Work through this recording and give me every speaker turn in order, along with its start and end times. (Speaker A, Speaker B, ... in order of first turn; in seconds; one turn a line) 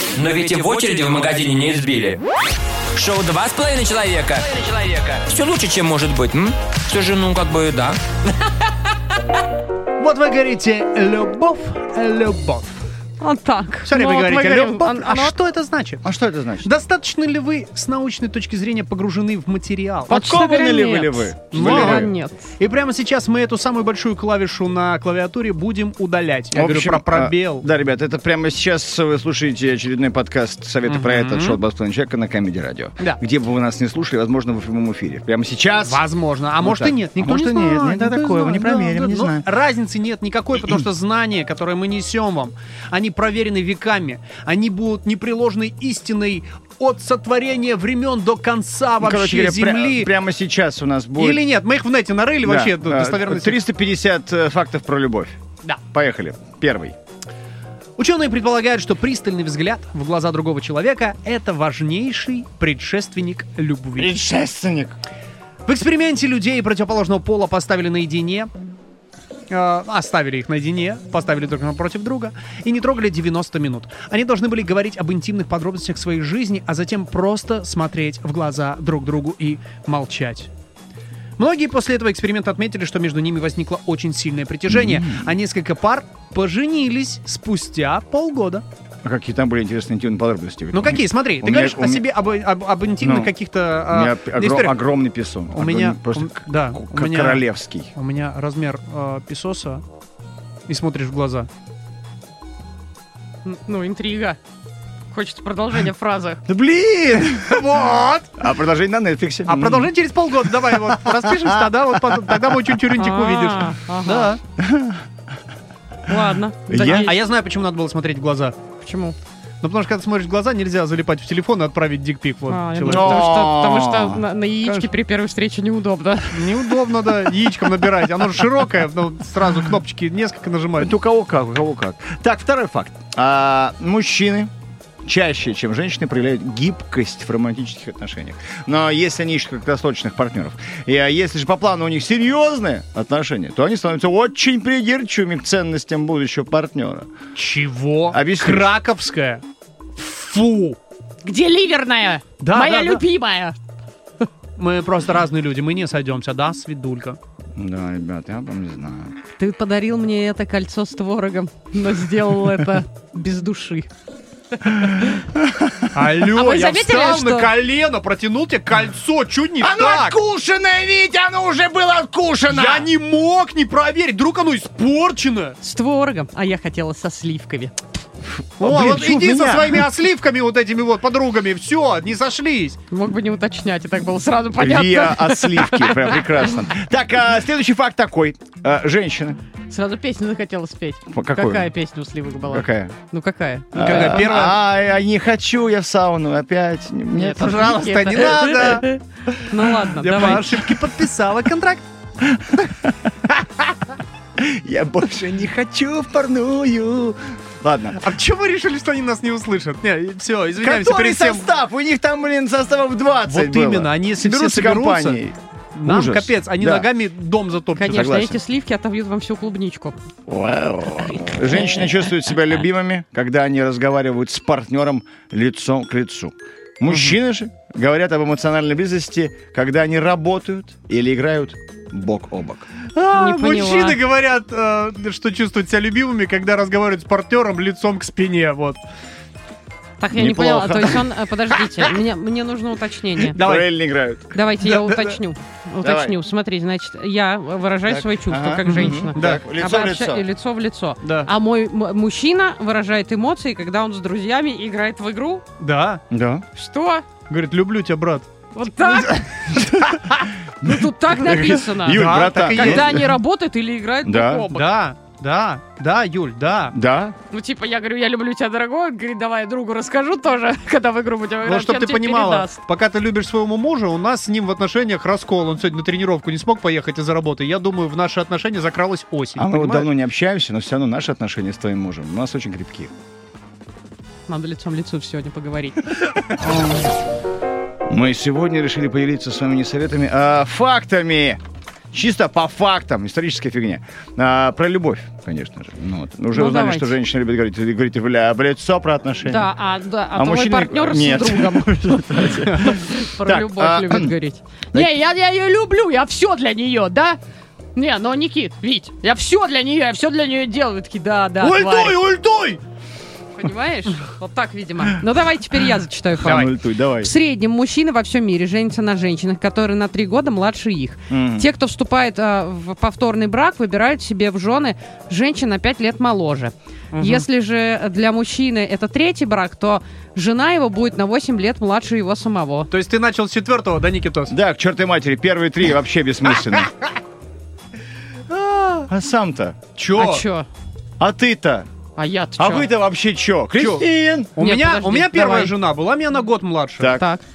Speaker A: 0.1-2.2
Speaker A: 2.9-8.0
Speaker B: 10.0-12.8
Speaker C: 13.2-15.3
Speaker B: 13.8-16.1
Speaker D: 16.0-16.7
Speaker B: 16.6-20.2
Speaker C: 20.1-22.4
Speaker D: 20.1-22.1
Speaker B: 21.5-27.7
Speaker D: 26.5-36.0
Speaker B: 30.9-31.6
Speaker B: 35.8-50.1
Speaker D: 36.6-39.5
Speaker D: 49.0-51.5
Speaker B: 51.2-53.6
Speaker D: 52.4-57.0
Speaker B: 58.0-64.1
Speaker D: 64.0-65.0
Speaker B: 65.7-68.5
Speaker B: 69.5-80.5
Speaker B: 81.4-88.6
Speaker D: 84.7-85.3
Speaker D: 89.0-92.1
Speaker B: 90.7-94.8
Speaker D: 93.0-97.9
Speaker B: 95.5-99.8
Speaker B: 100.7-101.5
Speaker C: 103.4-104.4
Speaker C: 105.1-106.4
Speaker D: 106.5-107.7
Speaker B: 107.3-108.3
Speaker D: 108.4-109.9
Speaker B: 109.5-114.4
Speaker D: 110.6-111.5
Speaker D: 112.2-112.5
Speaker C: 112.9-114.3
Speaker D: 114.6-115.0
Speaker C: 116.0-117.2
Speaker D: 116.7-117.1
Speaker B: 116.7-118.5
Speaker C: 118.8-119.2
Speaker B: 119.6-123.3
Speaker C: 122.5-126.5
Speaker D: 122.9-124.2
Speaker B: 126.3-130.9
Speaker D: 130.8-134.5
Speaker D: 135.0-147.1
Speaker B: 147.3-149.4
Speaker D: 148.1-148.7
Speaker B: 149.9-150.8
Speaker C: 151.2-153.6
Speaker B: 152.4-153.0
Speaker B: 154.6-157.2
Speaker D: 157.6-159.1
Speaker C: 159.3-163.9
Speaker C: 164.8-165.0
Speaker D: 165.0-166.0
Speaker B: 165.9-170.2
Speaker C: 166.3-167.5
Speaker D: 169.6-172.9
Speaker B: 172.5-175.6
Speaker C: 175.6-177.8
Speaker D: 178.6-179.8
Speaker B: 178.6-182.8
Speaker C: 182.9-186.5
Speaker D: 184.6-189.4
Speaker C: 189.7-194.3
Speaker D: 191.1-191.7
Speaker D: 192.5-192.9
Speaker D: 193.7-197.8
Speaker B: 193.7-194.6
Speaker C: 197.2-200.6
Speaker B: 197.4-198.9
Speaker B: 199.9-201.9
Speaker D: 202.2-203.6
Speaker D: 204.4-208.0
Speaker B: 208.0-211.5
Speaker D: 210.6-216.9
Speaker B: 213.3-215.2
Speaker B: 215.7-218.1
Speaker C: 217.7-219.9
Speaker D: 217.8-218.4
Speaker D: 220.3-232.6
Speaker C: 221.0-222.1
Speaker B: 226.9-227.2
Speaker B: 232.9-238.8
Speaker C: 233.1-234.0
Speaker C: 240.0-243.4
Speaker D: 240.1-241.1
Speaker D: 243.3-245.1
Speaker B: 243.3-243.7
Speaker C: 244.3-255.4
Speaker D: 245.8-246.2
Speaker D: 247.9-250.2
Speaker B: 248.7-249.4
Speaker B: 251.0-251.3
Speaker B: 255.6-256.0
Speaker D: 256.1-256.4
Speaker C: 256.5-257.1
Speaker B: 257.3-258.3
Speaker C: 258.5-259.4
Speaker D: 259.5-263.1
Speaker C: 260.6-264.8
Speaker B: 261.9-263.0
Speaker D: 264.0-264.5
Speaker B: 264.5-266.8
Speaker D: 266.7-267.1
Speaker C: 267.3-272.6
Speaker B: 271.4-279.9
Speaker D: 279.4-282.9
Speaker C: 284.3-285.8
Speaker D: 287.9-291.4
Speaker D: 291.9-299.5
Speaker C: 296.3-296.9
Speaker C: 299.2-307.2
Speaker D: 300.1-304.1
Speaker C: 307.7-312.0
Speaker B: 311.4-312.6
Speaker C: 313.4-332.7
Speaker D: 316.2-317.1
Speaker D: 321.1-321.5
Speaker B: 326.9-327.3
Speaker B: 332.7-334.3
Speaker D: 334.3-336.7
Speaker B: 338.3-338.9
Speaker D: 338.9-339.6
Speaker B: 339.8-340.2
Speaker C: 339.9-340.5
Speaker D: 341.0-341.7
Speaker C: 341.9-342.7
Speaker D: 342.4-344.3
Speaker B: 343.6-346.9
Speaker C: 344.4-345.5
Speaker D: 346.8-347.1
Speaker C: 346.9-347.2